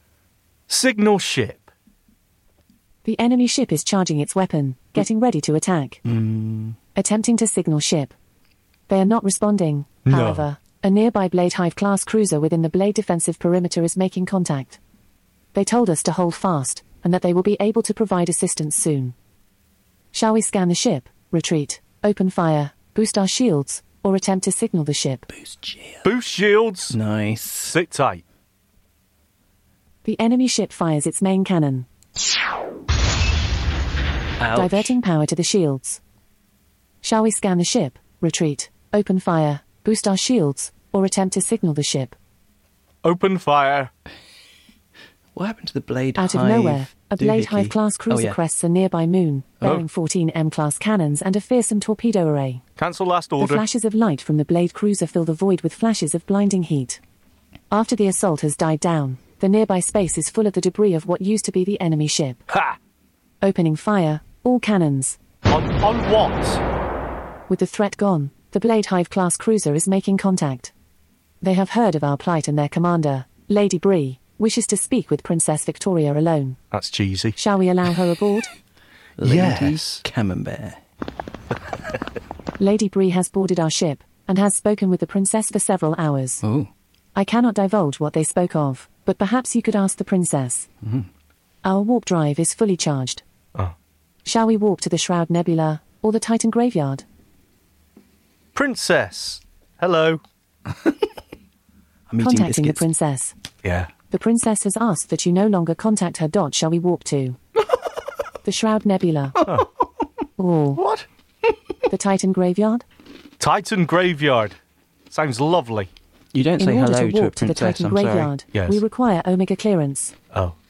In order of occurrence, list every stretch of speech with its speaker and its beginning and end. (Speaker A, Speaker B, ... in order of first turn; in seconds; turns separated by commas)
Speaker A: 0.7-1.7, Speaker B: 3.0-6.0, Speaker C: 6.0-6.8, Speaker B: 7.0-8.1, Speaker B: 8.9-14.8, Speaker A: 10.1-10.5, Speaker B: 15.5-19.1, Speaker B: 20.1-25.3, Speaker C: 25.3-26.1, Speaker A: 26.0-26.9, Speaker C: 26.9-27.8, Speaker A: 27.7-28.2, Speaker B: 30.1-31.9, Speaker C: 34.4-35.0, Speaker B: 34.5-36.0, Speaker B: 37.0-42.1, Speaker A: 43.0-43.9, Speaker C: 45.4-48.4, Speaker B: 46.2-52.6, Speaker A: 52.8-53.6, Speaker B: 53.4-57.0, Speaker B: 57.7-62.4, Speaker A: 62.5-62.8, Speaker B: 63.4-65.2, Speaker A: 65.5-66.6, Speaker B: 67.5-70.7, Speaker B: 71.4-76.6, Speaker A: 76.7-77.4, Speaker B: 77.4-78.5, Speaker C: 79.2-80.8, Speaker A: 79.2-80.0, Speaker B: 82.6-86.4, Speaker C: 86.4-86.7, Speaker B: 87.2-90.7, Speaker C: 90.8-91.1, Speaker B: 91.6-93.2, Speaker B: 94.2-97.0, Speaker A: 98.5-100.2, Speaker C: 102.1-102.9, Speaker B: 102.2-103.3, Speaker A: 103.6-103.9, Speaker B: 104.1-107.4, Speaker B: 108.4-109.4, Speaker B: 110.4-110.8, Speaker A: 110.8-111.1, Speaker B: 111.9-112.8, Speaker A: 113.4-114.5, Speaker A: 115.1-115.9, Speaker C: 116.3-118.3, Speaker B: 116.6-120.2, Speaker A: 118.5-118.8